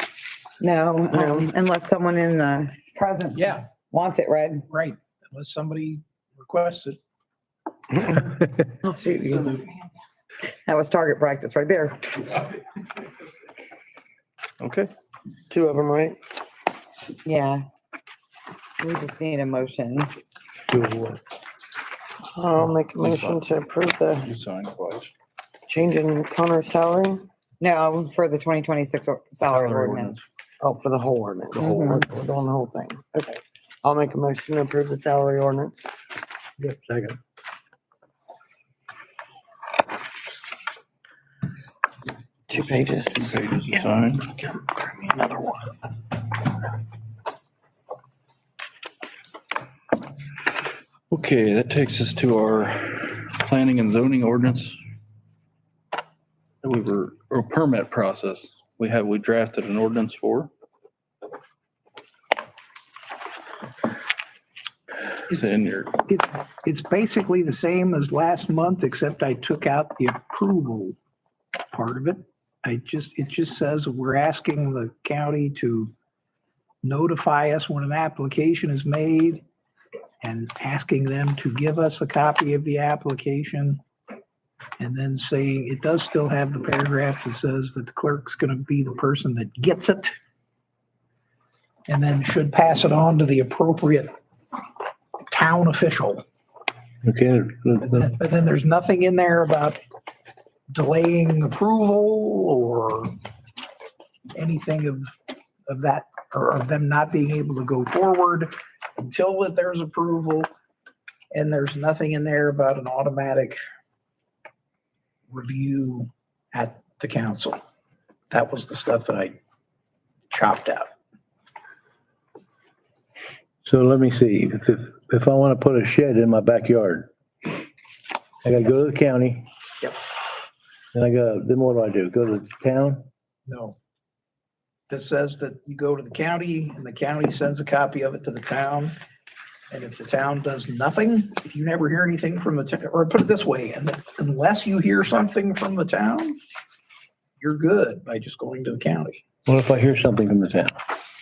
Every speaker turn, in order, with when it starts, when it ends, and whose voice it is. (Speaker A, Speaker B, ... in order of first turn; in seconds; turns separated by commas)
Speaker A: 0.6-4.7, Speaker B: 1.1-1.5, Speaker C: 3.4-3.6, Speaker C: 4.7-7.0, Speaker A: 8.8-9.7, Speaker A: 10.5-12.5, Speaker D: 14.6-14.9, Speaker B: 15.5-16.2, Speaker A: 17.2-17.6, Speaker A: 18.8-20.1, Speaker E: 20.7-21.2, Speaker B: 22.2-24.3, Speaker D: 23.0-23.5, Speaker D: 24.2-25.1, Speaker B: 25.7-27.2, Speaker A: 27.6-30.3, Speaker B: 30.6-35.9, Speaker A: 31.6-32.0, Speaker E: 36.6-37.2, Speaker B: 42.5-43.9, Speaker D: 43.1-44.4, Speaker B: 44.5-45.7, Speaker D: 51.1-54.8, Speaker D: 56.6-60.5, Speaker D: 65.3-65.9, Speaker C: 66.1-71.0, Speaker C: 71.7-75.9, Speaker C: 76.8-79.4, Speaker C: 80.2-83.8, Speaker C: 84.8-90.1, Speaker C: 91.9-94.1, Speaker C: 95.3-96.2, Speaker E: 97.0-98.1, Speaker C: 97.9-99.8, Speaker C: 100.7-103.2, Speaker C: 104.3-105.1, Speaker C: 105.7-110.5, Speaker C: 111.3-113.6, Speaker C: 115.3-117.6, Speaker C: 118.3-119.3, Speaker C: 120.3-120.9, Speaker E: 123.6-127.1, Speaker E: 128.4-129.5, Speaker E: 130.9-133.1, Speaker C: 133.5-133.8, Speaker C: 134.9-138.9, Speaker C: 139.7-146.4, Speaker C: 147.4-149.2, Speaker E: 149.4-150.8